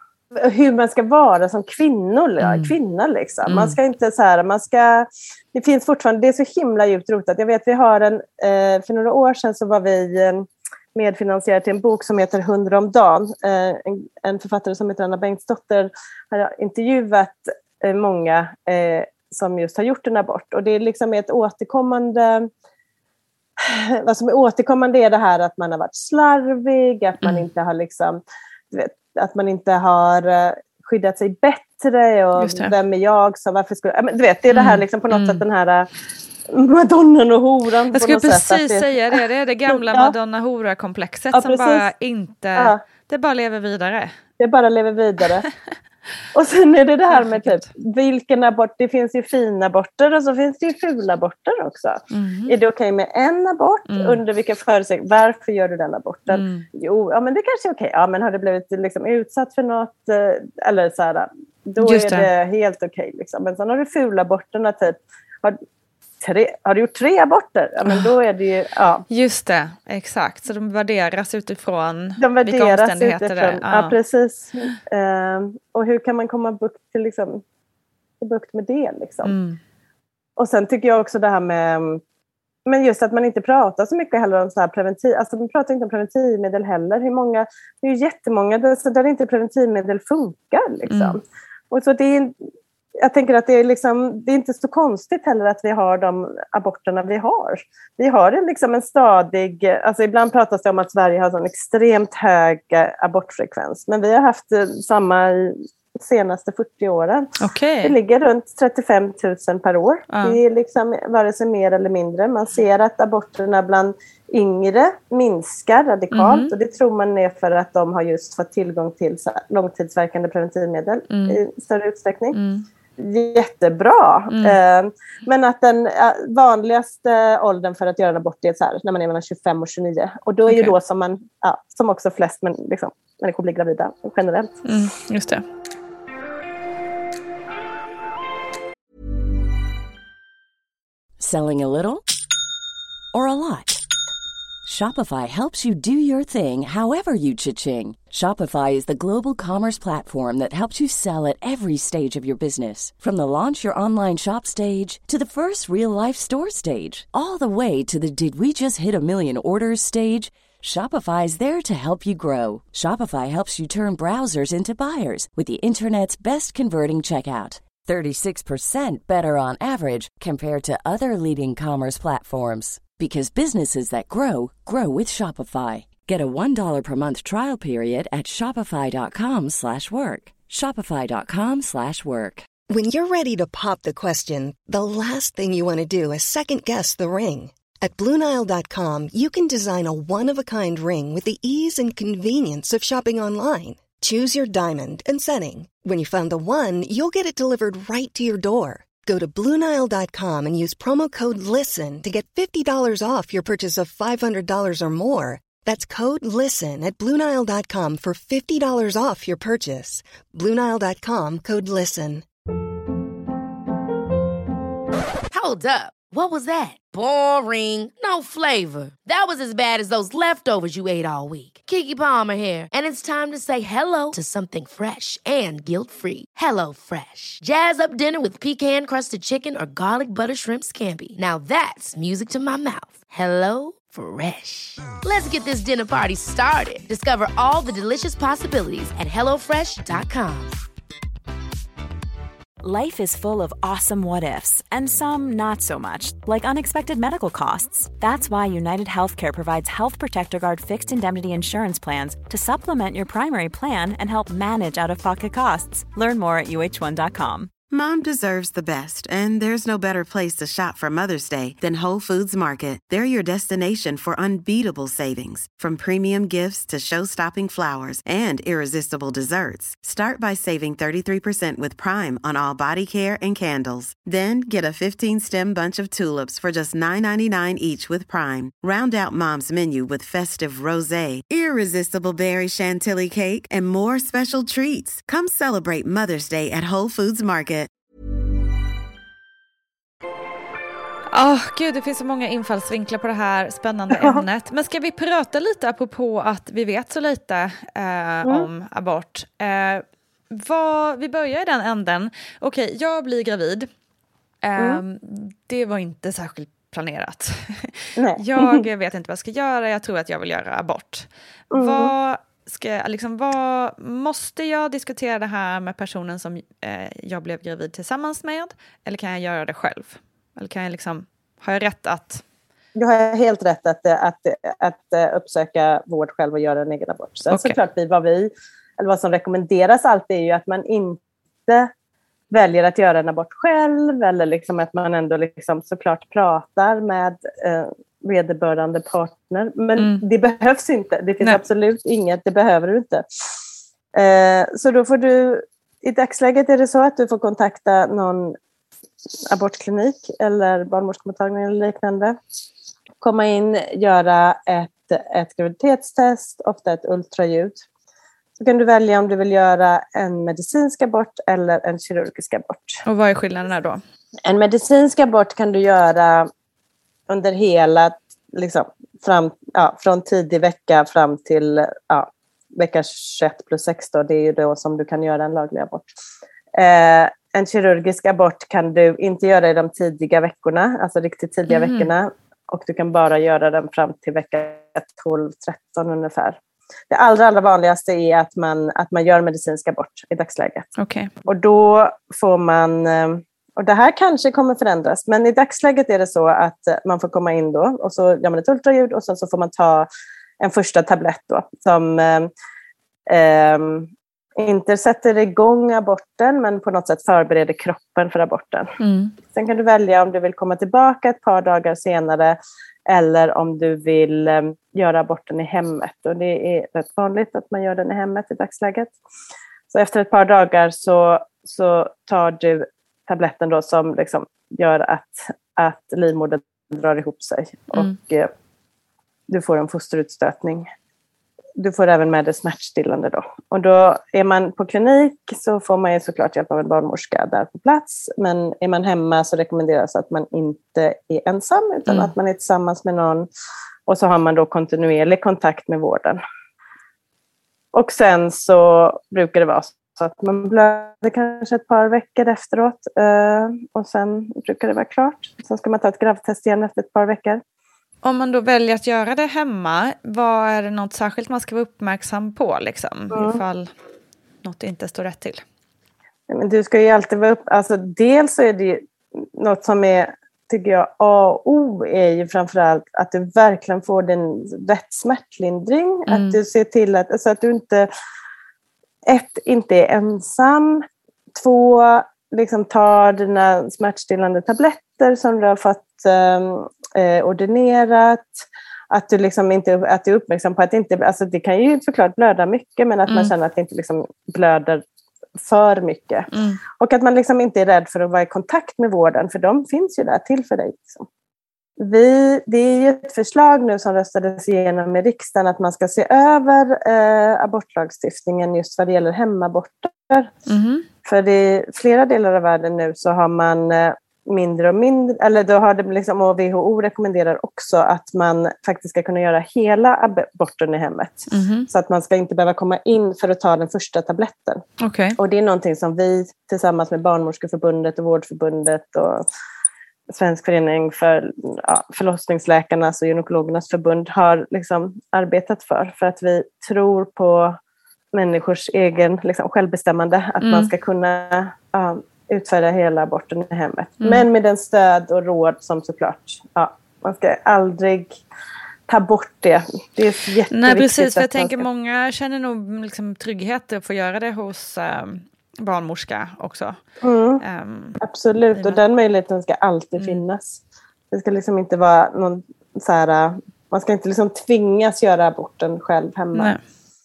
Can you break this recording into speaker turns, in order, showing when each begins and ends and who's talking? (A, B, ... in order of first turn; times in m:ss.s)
0:00.4-0:22.5 A
0:02.4-0:02.7 B
0:03.4-0:03.8 B
0:23.6-0:35.9 A
0:32.4-0:32.7 B
0:34.5-0:35.4 B
0:36.5-0:40.1 A
0:37.9-0:44.2 B
0:41.3-0:41.9 A
0:44.4-0:45.4 A
0:46.3-1:05.6 A
0:47.1-0:47.7 B
0:52.1-0:52.6 B
0:53.9-0:54.2 B
0:56.3-0:56.7 B
1:01.8-1:02.3 B
1:06.2-1:09.1 A
1:09.1-1:14.0 B
1:12.2-1:17.4 A
1:18.2-1:19.3 A
1:19.2-1:19.6 B
1:20.4-1:22.0 A
1:22.7-1:32.3 A
1:30.9-1:31.2 B
1:33.0-1:47.3 A
1:47.4-1:48.0 B
1:47.8-2:02.4 A
1:50.1-1:50.4 B
1:56.1-1:56.5 B
2:01.1-2:01.4 B
2:02.3-2:02.7 B
2:03.0-2:14.6 A
2:04.3-2:04.6 B
2:10.5-2:10.8 B
2:14.6-2:15.4 B
2:21.2-2:22.0 C
2:23.1-2:23.9 C
2:24.6-3:02.5 C
3:02.7-3:32.2 D
3:35.3-4:00.6 E
4:02.6-4:17.5 F
4:17.7-4:47.7 G
4:51.1-5:03.7 B
4:54.0-4:54.2 A
4:58.2-4:58.5 A
5:04.4-5:22.2 B
5:04.6-5:04.8 A
5:08.0-5:08.6 A
5:11.5-5:11.9 A
5:22.8-5:31.7 A
5:27.3-5:27.6 B
5:32.3-5:43.0 A
5:39.8-5:40.0 B
5:44.0-5:48.4 A
5:49.1-5:52.2 A
5:53.0-5:57.6 A
5:58.4-6:02.8 A
6:02.8-6:03.8 B
6:04.2-6:06.3 A
6:07.1-6:15.9 A
6:16.6-6:26.4 A
6:21.5-6:21.9 B
6:26.9-6:30.7 A
6:30.8-6:31.1 B
6:31.2-6:39.9 A
6:40.4-6:42.3 A
6:43.1-6:48.7 A
6:48.8-6:49.1 B
6:49.3-6:59.0 A
6:59.7-7:08.3 A
7:09.3-7:10.7 A
7:11.6-7:23.3 A
7:21.9-7:22.1 B
7:23.9-7:26.2 A
7:27.7-7:37.4 A
7:38.0-7:43.7 B
7:43.1-7:43.4 A
7:44.4-7:45.4 B
7:46.3-7:57.9 A
7:56.1-7:56.4 B
7:59.0-8:14.8 A
8:15.4-8:21.1 A
8:16.3-8:16.6 B
8:21.8-8:30.3 A
8:30.5-8:30.9 B
8:31.0-8:44.6 A
8:41.3-8:41.7 B
8:44.8-8:45.2 B
8:45.2-8:49.2 A
8:50.1-8:57.6 A
8:58.1-9:08.2 A
9:00.4-9:00.7 B
9:08.9-9:11.6 A
9:10.5-9:16.8 B
9:17.0-9:17.4 A
9:17.4-9:18.0 B
9:18.0-9:20.6 A
9:21.1-9:26.6 A
9:26.4-9:26.6 B